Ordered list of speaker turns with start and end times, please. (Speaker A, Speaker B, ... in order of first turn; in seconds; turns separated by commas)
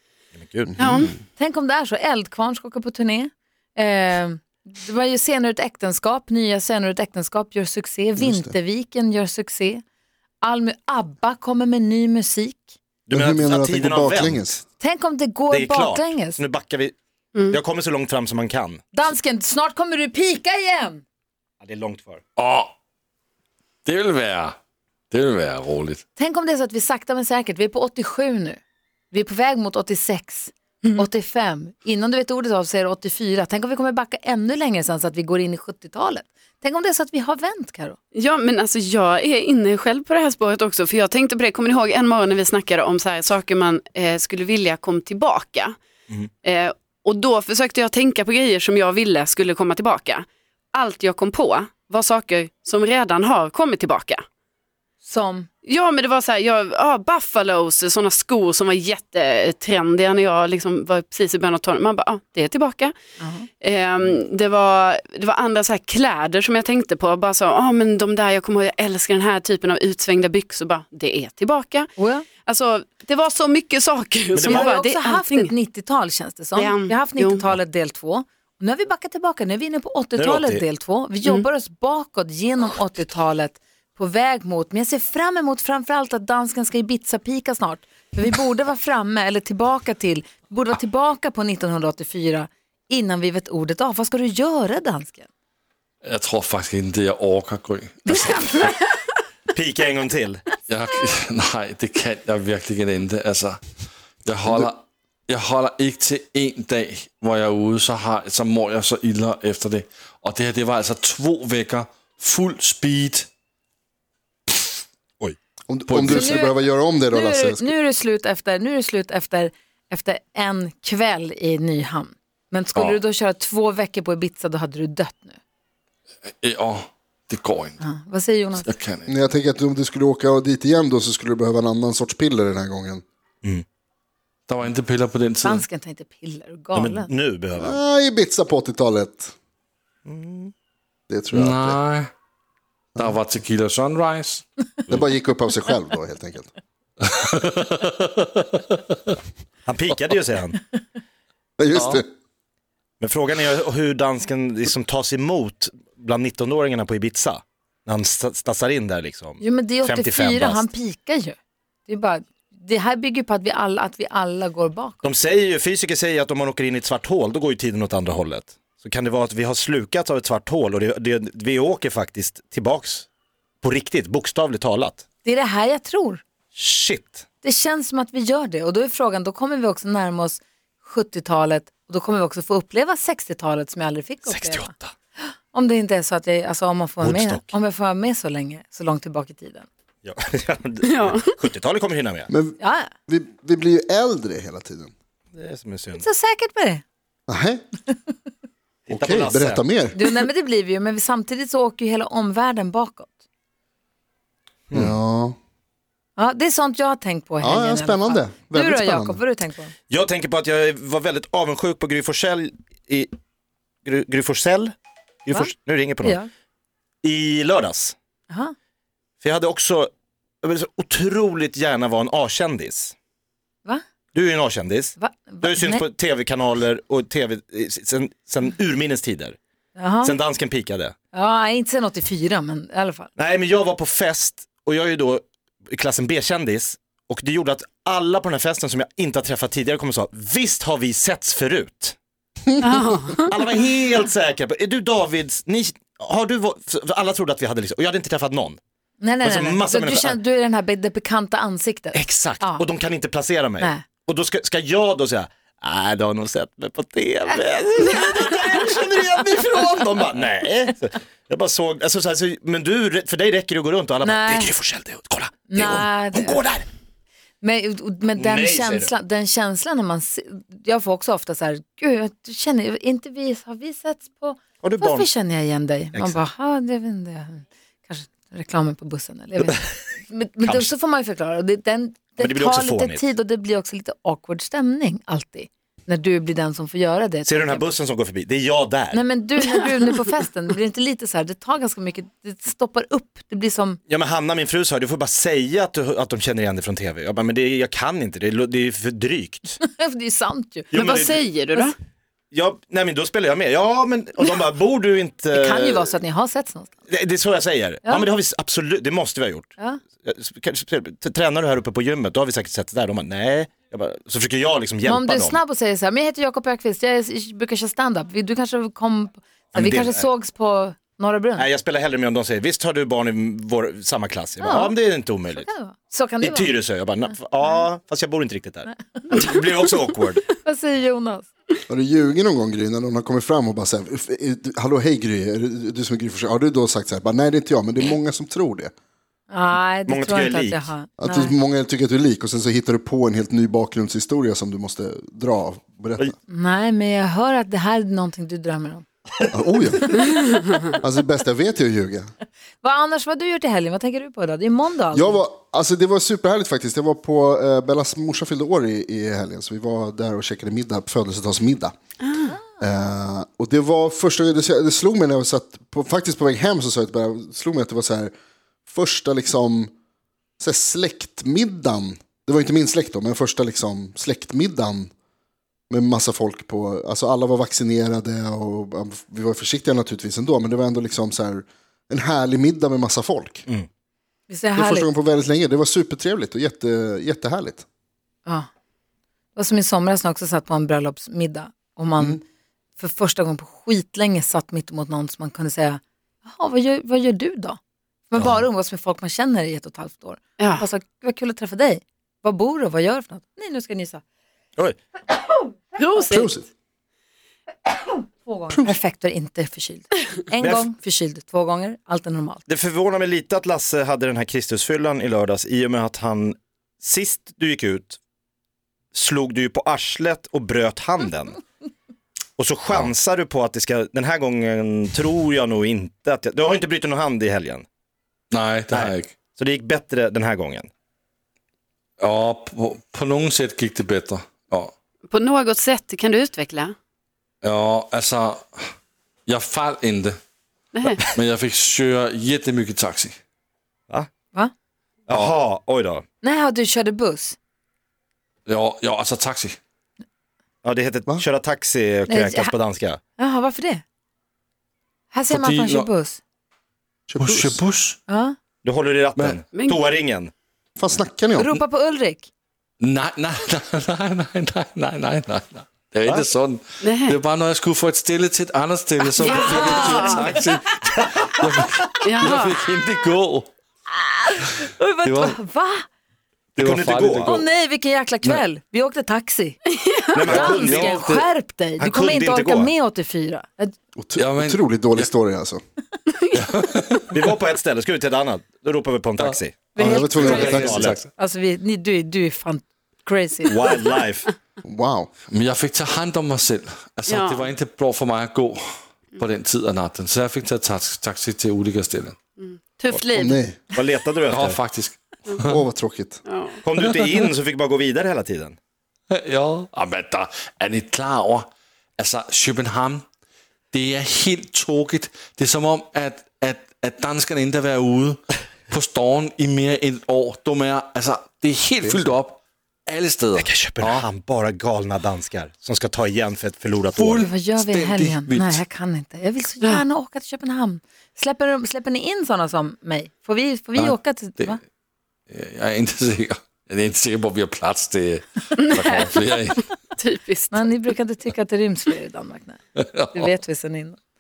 Speaker A: 0.3-0.9, Speaker B: 0.8-1.1, Speaker C: 1.4-9.8, Speaker D: 8.2-8.5, Speaker C: 10.4-12.8, Speaker A: 13.1-14.6, Speaker D: 13.1-14.6, Speaker C: 14.8-16.4, Speaker A: 15.5-17.0, Speaker A: 17.5-18.8, Speaker C: 18.9-21.0, Speaker A: 21.6-22.2, Speaker E: 22.4-22.7, Speaker E: 23.9-24.6, Speaker E: 25.1-26.0, Speaker C: 26.2-28.6, Speaker C: 29.1-38.0, Speaker B: 38.1-45.8, Speaker B: 46.4-54.2, Speaker C: 55.0-55.5, Speaker B: 55.6-63.0, Speaker C: 63.2-63.5, Speaker B: 63.6-75.5, Speaker C: 72.0-72.3, Speaker A: 74.3-74.7, Speaker C: 74.5-95.3, Speaker B: 76.6-77.5, Speaker A: 80.2-80.7, Speaker E: 96.0-98.7, Speaker A: 99.5-100.5, Speaker E: 100.7-103.6, Speaker E: 104.2-113.3, Speaker D: 115.7-117.7, Speaker E: 115.9-116.5, Speaker C: 116.0-125.4, Speaker E: 126.3-127.8, Speaker C: 127.8-128.8, Speaker E: 128.6-129.1, Speaker D: 129.1-133.0, Speaker E: 134.5-135.6, Speaker C: 135.4-137.1, Speaker A: 136.8-137.8, Speaker D: 137.6-139.3, Speaker A: 140.1-140.5, Speaker D: 141.1-141.8, Speaker E: 141.3-142.1, Speaker E: 143.0-145.0, Speaker D: 144.9-146.5, Speaker E: 147.2-148.4, Speaker A: 149.7-150.6, Speaker D: 151.6-152.1, Speaker E: 151.7-152.0, Speaker A: 153.0-160.7, Speaker C: 159.4-165.0, Speaker A: 165.0-173.1, Speaker A: 173.6-175.0, Speaker C: 175.2-176.2, Speaker A: 176.5-177.2, Speaker C: 177.4-184.7, Speaker A: 184.3-184.9, Speaker C: 185.5-189.7, Speaker A: 187.0-187.5, Speaker A: 190.0-192.3, Speaker B: 190.8-191.3, Speaker D: 192.3-194.9, Speaker C: 192.6-192.9, Speaker A: 195.3-196.1, Speaker C: 196.0-196.8, Speaker D: 197.3-197.6, Speaker A: 198.9-199.7, Speaker D: 198.9-199.9, Speaker C: 199.9-203.1, Speaker D: 204.7-205.4, Speaker C: 206.2-209.7, Speaker D: 207.4-209.2, Speaker A: 209.9-213.1, Speaker A: 213.8-214.7, Speaker A: 215.3-216.2, Speaker C: 216.0-216.3, Speaker A: 217.0-217.9, Speaker C: 218.3-218.5, Speaker A: 219.2-219.9, Speaker A: 220.4-222.9, Speaker A: 224.1-229.4, Speaker C: 225.0-225.8, Speaker C: 229.8-230.2, Speaker A: 230.0-230.9, Speaker C: 231.1-233.1, Speaker A: 233.2-242.0, Speaker B: 242.6-243.3, Speaker A: 243.3-248.6, Speaker C: 249.0-252.7, Speaker A: 249.2-250.2, Speaker A: 251.9-266.7, Speaker C: 253.6-253.8, Speaker C: 264.0-264.5, Speaker C: 265.5-266.4, Speaker C: 267.4-287.7, Speaker A: 268.1-268.9, Speaker A: 274.6-275.1, Speaker A: 282.2-283.1, Speaker A: 287.3-289.0, Speaker C: 288.9-293.8, Speaker A: 293.9-299.6, Speaker C: 299.6-301.0, Speaker A: 300.7-301.2, Speaker B: 300.7-301.8, Speaker A: 302.3-305.9, Speaker C: 305.3-306.8, Speaker A: 306.9-309.5, Speaker A: 310.0-315.4, Speaker C: 314.8-321.5, Speaker A: 319.5-320.1, Speaker A: 321.4-325.5, Speaker C: 324.4-324.8, Speaker C: 325.4-326.5, Speaker A: 326.2-330.2, Speaker C: 330.4-331.3, Speaker D: 331.7-338.7, Speaker C: 339.3-341.3, Speaker A: 339.9-340.7, Speaker D: 341.0-346.1, Speaker C: 346.3-348.9, Speaker D: 349.3-352.1, Speaker C: 352.6-355.2, Speaker D: 354.9-361.8, Speaker D: 362.6-368.1, Speaker D: 368.7-369.7, Speaker D: 370.4-374.9, Speaker D: 375.7-383.5, Speaker C: 384.3-384.9, Speaker D: 384.6-387.6, Speaker C: 389.4-392.2, Speaker C: 392.8-397.6, Speaker C: 398.1-404.0, Speaker B: 400.4-400.6, Speaker B: 405.8-406.3, Speaker D: 406.1-406.4, Speaker C: 407.8-412.4, Speaker D: 408.5-408.8, Speaker A: 410.4-410.7, Speaker A: 412.5-418.0, Speaker A: 418.9-421.4, Speaker A: 422.4-427.6, Speaker E: 428.3-429.2, Speaker A: 428.7-430.7, Speaker E: 432.0-434.7, Speaker B: 435.1-436.8, Speaker E: 437.4-438.5, Speaker E: 439.3-440.2, Speaker B: 440.7-441.0, Speaker E: 441.1-443.2, Speaker A: 445.1-446.0, Speaker C: 446.2-447.4, Speaker E: 448.5-449.6, Speaker A: 450.6-453.0, Speaker C: 452.1-452.5, Speaker C: 453.2-453.8, Speaker C: 455.1-456.2, Speaker E: 455.3-455.9, Speaker D: 457.1-457.6, Speaker E: 457.2-458.0, Speaker C: 458.1-458.4, Speaker A: 458.6-460.3, Speaker B: 459.5-459.8, Speaker D: 460.8-461.5, Speaker C: 461.4-462.3, Speaker E: 462.8-473.5, Speaker B: 466.8-467.2, Speaker B: 469.2-470.2, Speaker C: 469.2-470.4, Speaker B: 472.0-472.6, Speaker C: 474.1-475.9, Speaker E: 475.1-475.4, Speaker E: 476.6-477.5, Speaker A: 476.6-477.3, Speaker C: 477.2-479.6, Speaker B: 479.8-480.9, Speaker A: 480.1-482.7, Speaker C: 480.2-483.8, Speaker E: 480.4-480.9, Speaker D: 484.0-485.6, Speaker E: 484.2-485.1, Speaker E: 486.3-487.2, Speaker A: 487.1-491.0, Speaker E: 489.2-491.1, Speaker D: 489.8-490.9, Speaker C: 489.8-490.6, Speaker C: 491.2-493.7, Speaker A: 493.5-494.3, Speaker D: 494.6-495.1, Speaker E: 495.3-498.6, Speaker B: 497.1-497.5, Speaker E: 499.2-502.2, Speaker B: 502.4-503.5, Speaker D: 503.1-503.6, Speaker A: 503.7-504.6, Speaker E: 504.3-505.6, Speaker D: 505.5-506.2, Speaker B: 506.2-506.6, Speaker A: 506.6-508.6, Speaker E: 509.1-513.0, Speaker E: 513.7-524.0, Speaker D: 521.9-522.1, Speaker A: 523.4-527.3, Speaker E: 526.9-528.6, Speaker C: 527.2-534.6, Speaker E: 533.8-534.6, Speaker E: 535.3-539.7, Speaker B: 538.6-539.1, Speaker B: 540.0-540.7, Speaker C: 540.5-542.6, Speaker E: 542.8-543.3, Speaker C: 543.1-544.0